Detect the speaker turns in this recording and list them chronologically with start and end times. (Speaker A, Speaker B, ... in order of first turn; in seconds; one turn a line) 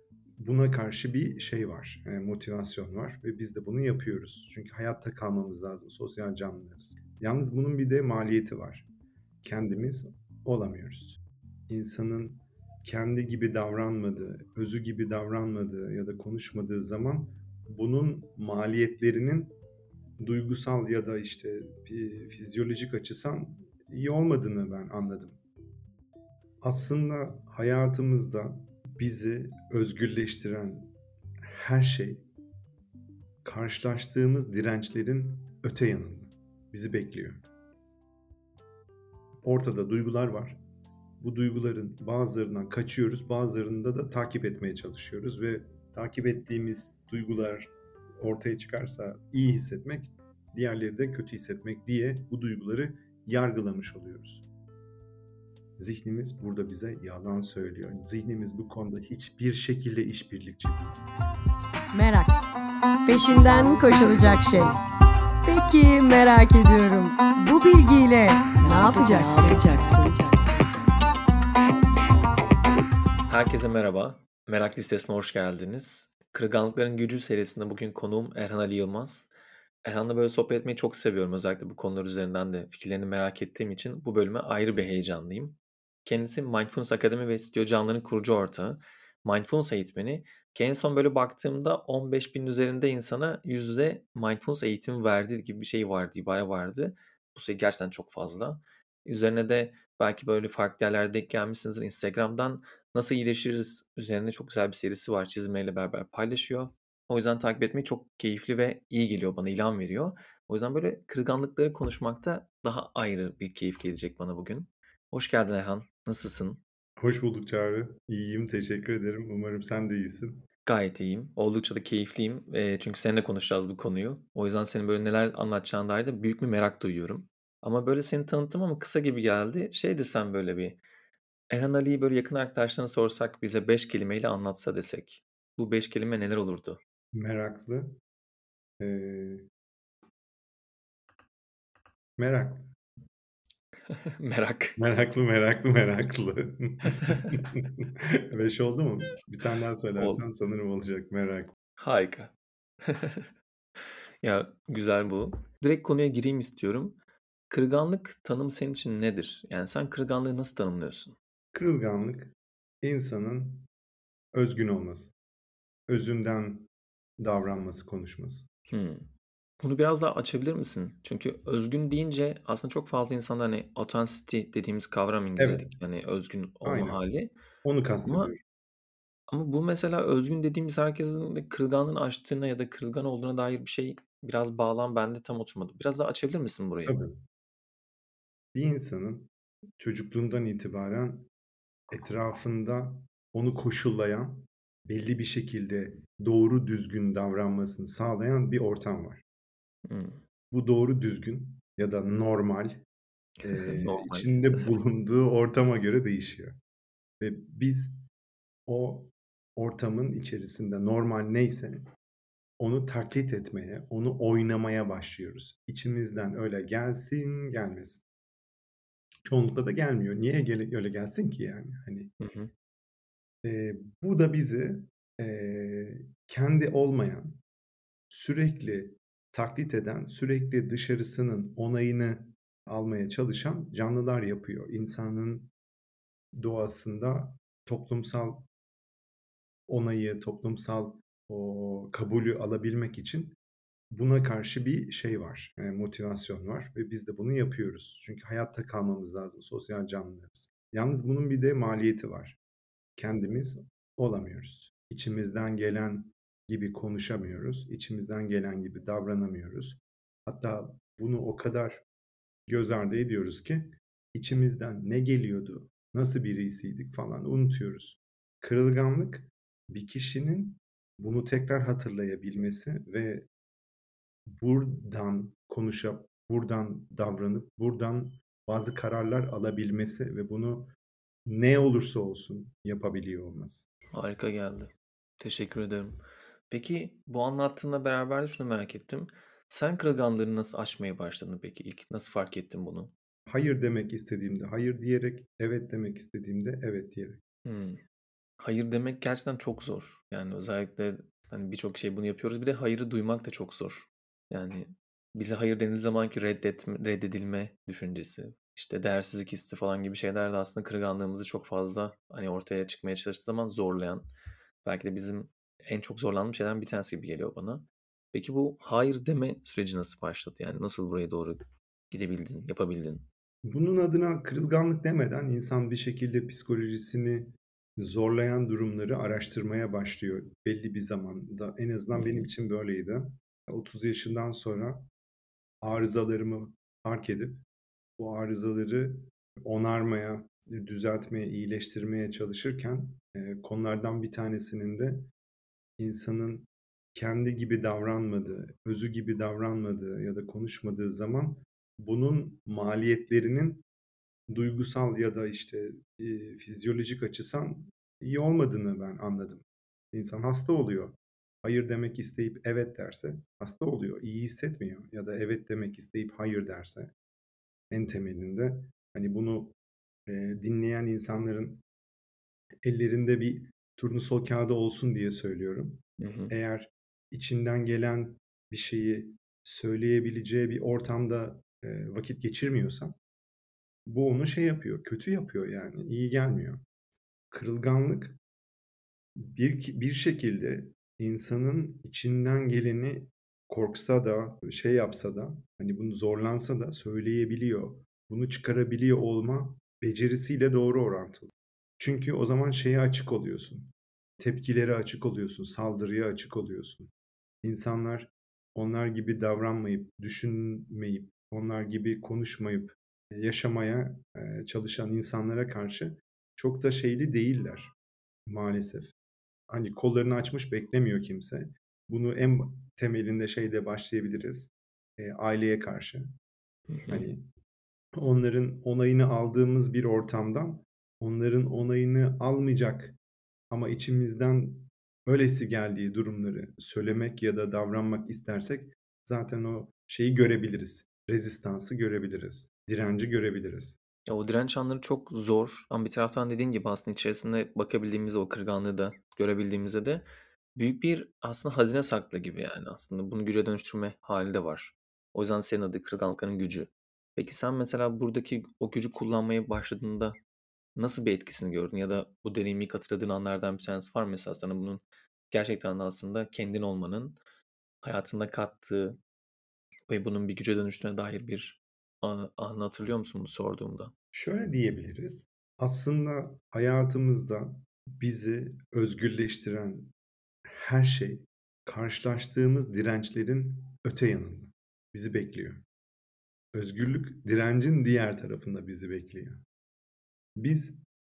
Speaker A: 0.4-8.8
Speaker A: 9.4-19.6
Speaker A: 20.2-25.4
Speaker A: 26.6-30.9
Speaker A: 31.4-32.2
Speaker A: 33.4-37.4
Speaker A: 39.4-40.6
Speaker A: 41.2-54.4
Speaker A: 55.8-60.9
Speaker B: 61.9-62.3
Speaker B: 63.0-64.8
Speaker B: 65.4-70.5
Speaker C: 73.3-79.3
Speaker C: 79.8-116.6
Speaker A: 117.0-120.4
Speaker C: 120.7-130.8
Speaker C: 131.5-136.8
Speaker A: 137.1-137.9
Speaker A: 138.8-139.4
Speaker A: 142.2-142.7
Speaker C: 143.8-144.8
Speaker A: 144.8-151.5
Speaker C: 147.0-147.3
Speaker C: 150.0-150.2
Speaker C: 151.8-157.0
Speaker C: 157.5-161.2
Speaker A: 161.5-163.7
Speaker A: 164.3-165.1
Speaker A: 165.9-166.7
Speaker A: 167.2-168.5
Speaker C: 168.7-169.1
Speaker C: 169.6-177.3
Speaker A: 175.4-175.7
Speaker A: 176.6-177.0
Speaker A: 177.6-178.4
Speaker C: 178.0-178.3
Speaker C: 179.3-187.0
Speaker A: 186.8-187.2
Speaker A: 188.5-191.3
Speaker A: 191.9-199.2
Speaker C: 199.9-200.2
Speaker A: 200.5-202.8
Speaker C: 203.4-204.7
Speaker A: 203.4-206.6
Speaker A: 207.2-208.0
Speaker A: 208.7-211.8
Speaker A: 212.6-218.0
Speaker A: 219.2-222.1
Speaker C: 222.2-222.5
Speaker A: 223.4-227.4
Speaker A: 228.1-235.5
Speaker A: 236.3-238.5
Speaker A: 239.7-243.3
Speaker A: 243.9-252.4
Speaker A: 253.0-261.8
Speaker A: 262.5-273.3
Speaker A: 274.3-280.7
Speaker A: 281.3-283.6
Speaker C: 283.9-292.9
Speaker A: 293.3-297.2
Speaker C: 297.4-297.8
Speaker C: 298.4-314.1
Speaker C: 314.6-323.1
Speaker A: 323.4-334.9
Speaker C: 331.9-332.3
Speaker A: 335.6-337.4
Speaker A: 338.0-345.1
Speaker A: 345.8-353.6
Speaker A: 354.3-366.9
Speaker A: 367.7-369.5
Speaker A: 370.1-371.6
Speaker A: 372.6-382.9
Speaker C: 376.0-376.3
Speaker A: 383.9-386.6
Speaker A: 387.3-388.2
Speaker A: 389.2-406.9
Speaker A: 407.4-417.7
Speaker A: 418.3-418.9
Speaker A: 419.5-426.1
Speaker C: 426.7-427.1
Speaker A: 426.9-427.2
Speaker A: 428.0-432.9
Speaker A: 433.5-443.8
Speaker C: 444.1-450.0
Speaker C: 450.5-460.2
Speaker C: 460.8-467.2
Speaker C: 467.8-469.0
Speaker C: 469.9-473.9
Speaker A: 474.1-479.9
Speaker A: 480.4-485.6
Speaker A: 486.5-489.4
Speaker A: 490.4-490.8